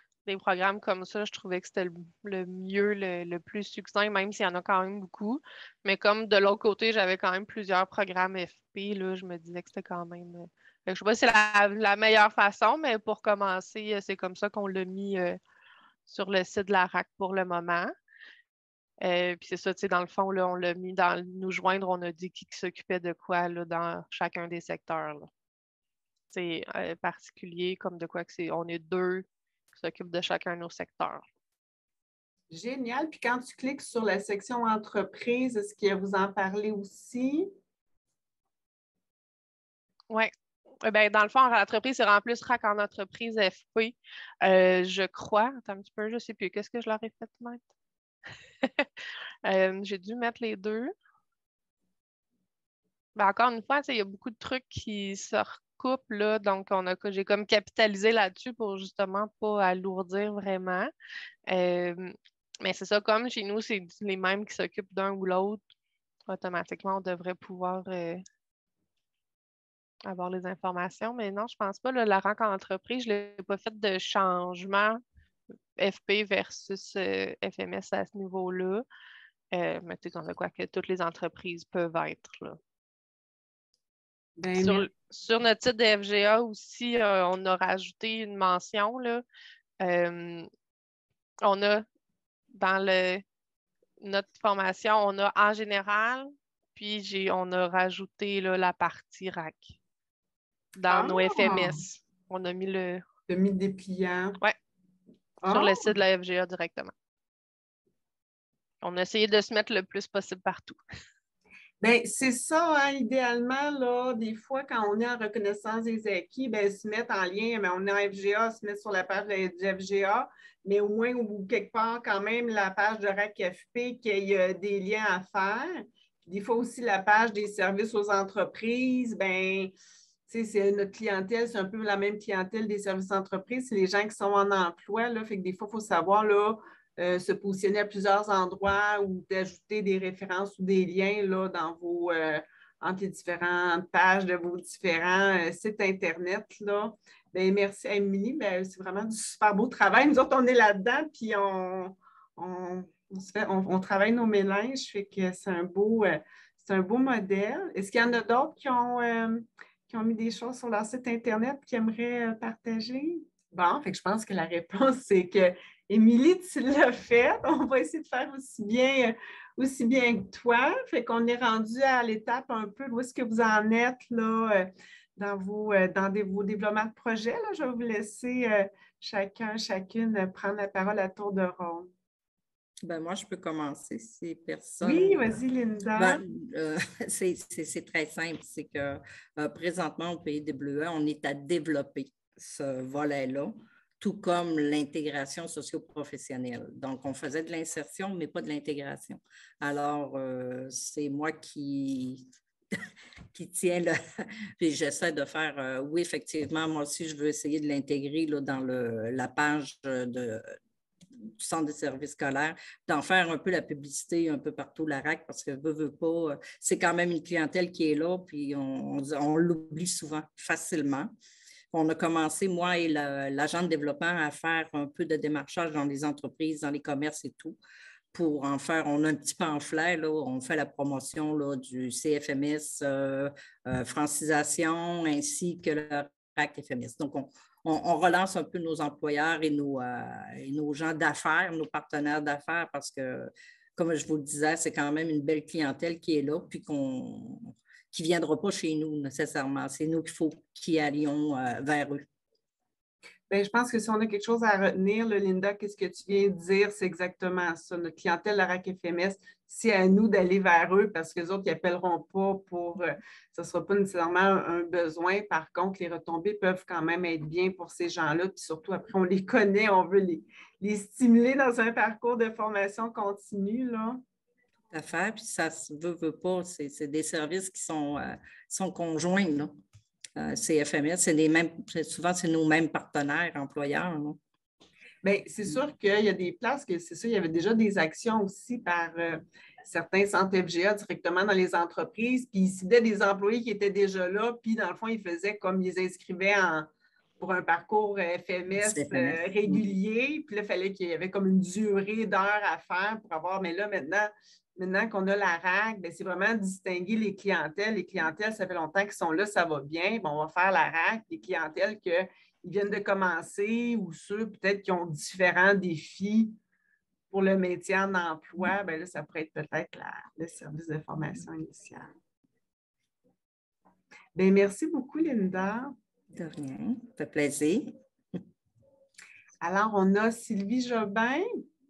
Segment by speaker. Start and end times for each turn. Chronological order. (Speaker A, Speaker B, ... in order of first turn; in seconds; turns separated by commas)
Speaker A: 0.2-15.4, Speaker A: 16.1-17.9, Speaker A: 19.0-25.3, Speaker A: 26.3-31.2, Speaker B: 32.5-37.5, Speaker A: 40.8-47.6, Speaker A: 49.5-50.9, Speaker A: 53.1-60.9, Speaker A: 61.5-65.6, Speaker A: 66.3-68.2, Speaker A: 70.0-75.0, Speaker A: 75.8-78.8, Speaker A: 79.5-82.6, Speaker B: 84.4-84.9, Speaker A: 84.6-89.2, Speaker A: 89.8-90.5, Speaker A: 91.4-91.8, Speaker A: 92.5-93.2, Speaker A: 94.0-99.7, Speaker A: 100.8-103.0, Speaker B: 100.9-101.8, Speaker B: 103.3-104.4, Speaker B: 105.4-106.0, Speaker A: 105.5-106.9, Speaker A: 108.8-110.8, Speaker B: 111.8-129.7, Speaker B: 130.3-181.9, Speaker C: 182.8-185.2, Speaker B: 184.8-186.2, Speaker C: 185.9-202.2, Speaker C: 203.3-204.0, Speaker C: 204.6-210.6, Speaker C: 211.3-221.1, Speaker C: 221.7-227.6, Speaker C: 228.1-252.1, Speaker B: 253.3-274.0, Speaker C: 274.7-279.6, Speaker C: 280.1-284.2, Speaker B: 285.0-296.7, Speaker B: 297.2-316.4, Speaker C: 298.6-299.6, Speaker B: 317.1-321.9, Speaker B: 324.1-325.7, Speaker C: 326.1-327.7, Speaker B: 329.4-331.2